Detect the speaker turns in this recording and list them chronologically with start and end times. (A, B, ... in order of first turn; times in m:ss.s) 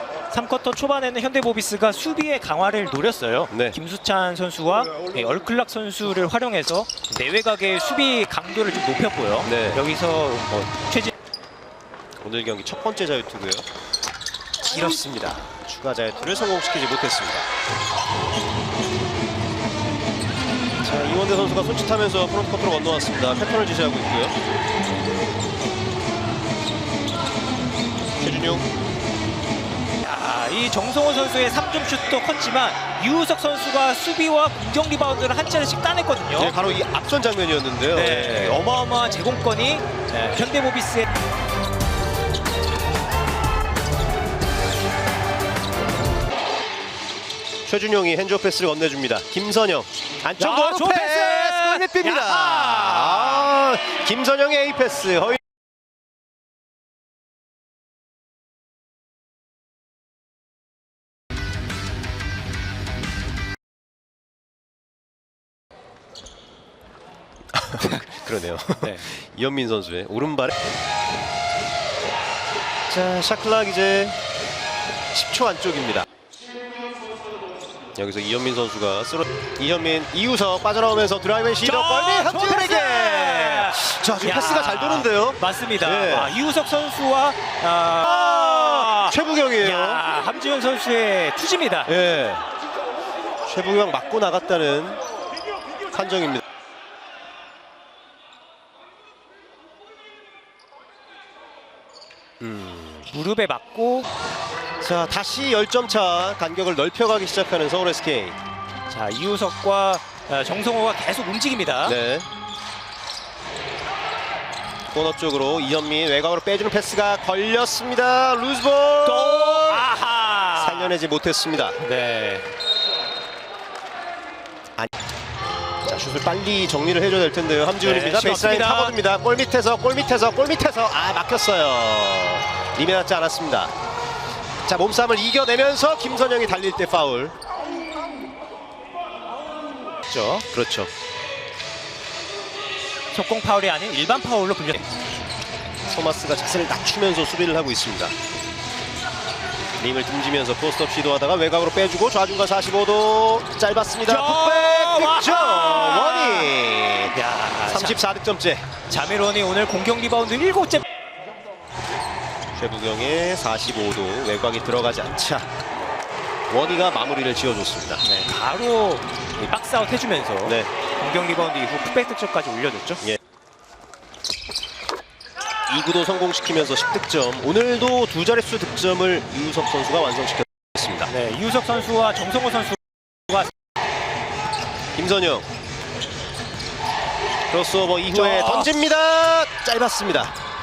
0:00.3-0:11.1 A
0:03.5-0:03.8 B
0:09.4-0:09.8 B
0:12.2-0:13.6 B
0:14.6-0:17.5 B
0:20.8-0:24.3 B
0:28.2-0:28.6 B
0:30.0-0:36.6 A
0:36.3-0:38.6 B
0:37.9-0:41.1 A
0:47.6-0:55.4 B
0:50.4-0:53.5 A
1:07.5-1:10.6 B
1:07.8-1:08.0 A
1:08.8-1:09.1 A
1:12.9-1:14.2 B
1:15.1-1:16.0 B
1:17.9-1:26.3 B
1:21.6-1:31.9 A
1:28.0-1:30.0 B
1:31.9-1:32.4 B
1:33.4-1:35.0 B
1:35.9-1:36.4 B
1:42.4-1:43.1 B
1:43.1-1:44.1 A
1:44.8-1:48.4 B
1:48.9-1:52.0 A
1:51.8-1:52.3 B
1:54.9-1:59.9 B
1:59.0-2:01.0 A
2:00.5-2:01.8 B
2:01.8-2:02.5 A
2:05.8-2:13.7 B
2:07.8-2:09.0 A
2:14.6-2:17.3 B
2:20.1-2:20.5 A
2:20.5-2:20.9 B
2:23.1-2:24.9 A
2:25.8-2:28.1 B
2:29.8-2:37.1 B
2:34.0-2:36.5 A
2:37.1-2:38.0 A
2:37.6-2:38.7 B
2:38.9-2:40.8 A
2:42.5-2:45.5 B
2:46.5-2:48.0 B
2:48.0-2:53.0 A
2:50.4-2:50.7 B
2:55.7-3:01.1 B
3:01.1-3:03.5 A
3:04.9-3:05.5 B
3:07.5-3:10.3 B
3:08.1-3:08.7 A